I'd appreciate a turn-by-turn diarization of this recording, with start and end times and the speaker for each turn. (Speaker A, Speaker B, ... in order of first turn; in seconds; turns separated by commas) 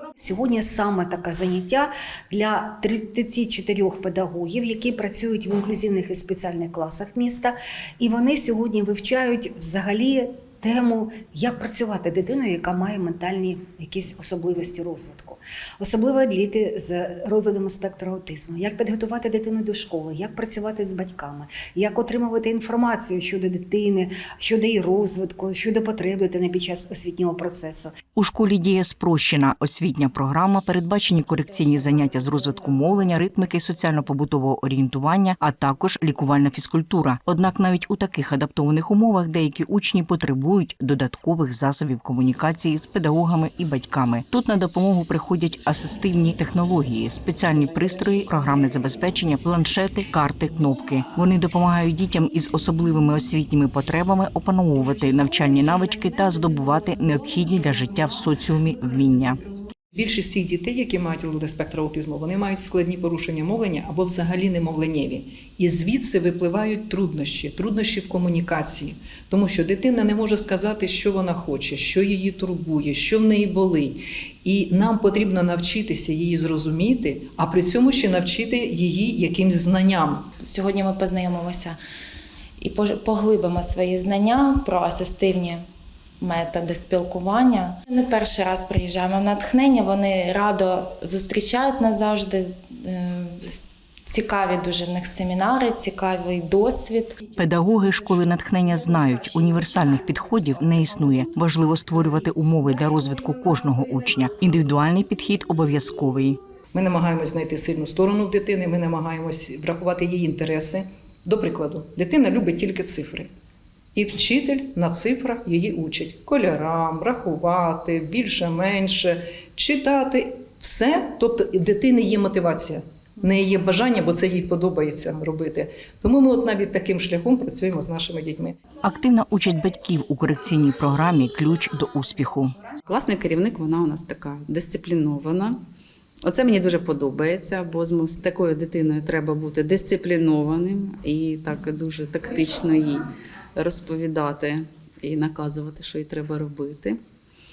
Speaker A: 0.2-27.9, Speaker B: 28.1-59.4, Speaker C: 59.9-80.3, Speaker D: 80.4-81.8, Speaker D: 82.6-85.6, Speaker D: 86.2-97.2, Speaker B: 97.4-106.4, Speaker C: 106.7-113.3, Speaker C: 113.9-128.6, Speaker B: 128.8-132.5, Speaker E: 132.9-135.6, Speaker E: 136.2-147.0